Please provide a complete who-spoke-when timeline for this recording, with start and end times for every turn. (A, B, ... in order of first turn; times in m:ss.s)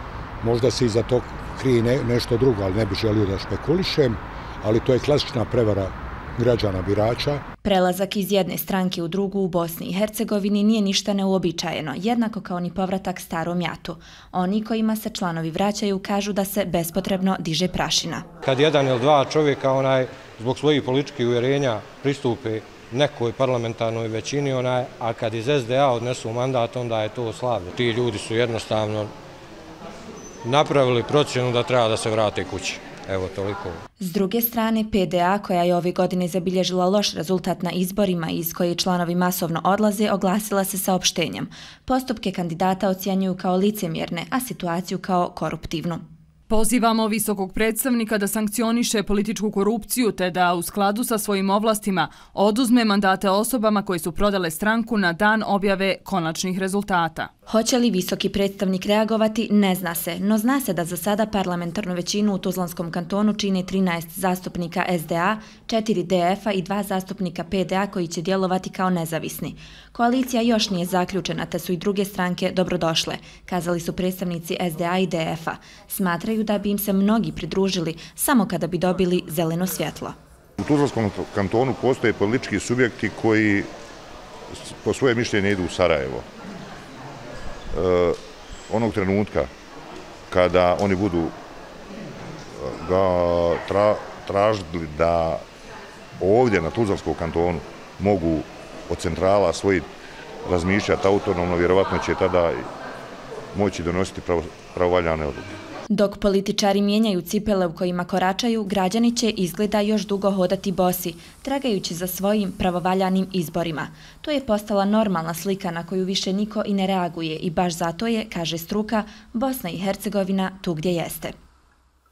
0:00.4-0:07.4 A
0:07.6-0:18.2 B
0:18.5-0:29.1 C
0:30.4-0:33.8 C
0:34.0-0:46.0 B
0:46.5-0:57.3 D
0:57.5-1:20.2 B
1:20.6-1:23.7 E
1:24.7-1:26.2 E
1:27.7-1:29.5 E
1:30.3-1:31.3 E
1:32.6-1:35.4 E
1:36.2-1:39.9 E
1:40.4-1:42.6 E
1:43.5-1:45.5 E
1:45.9-2:01.3 B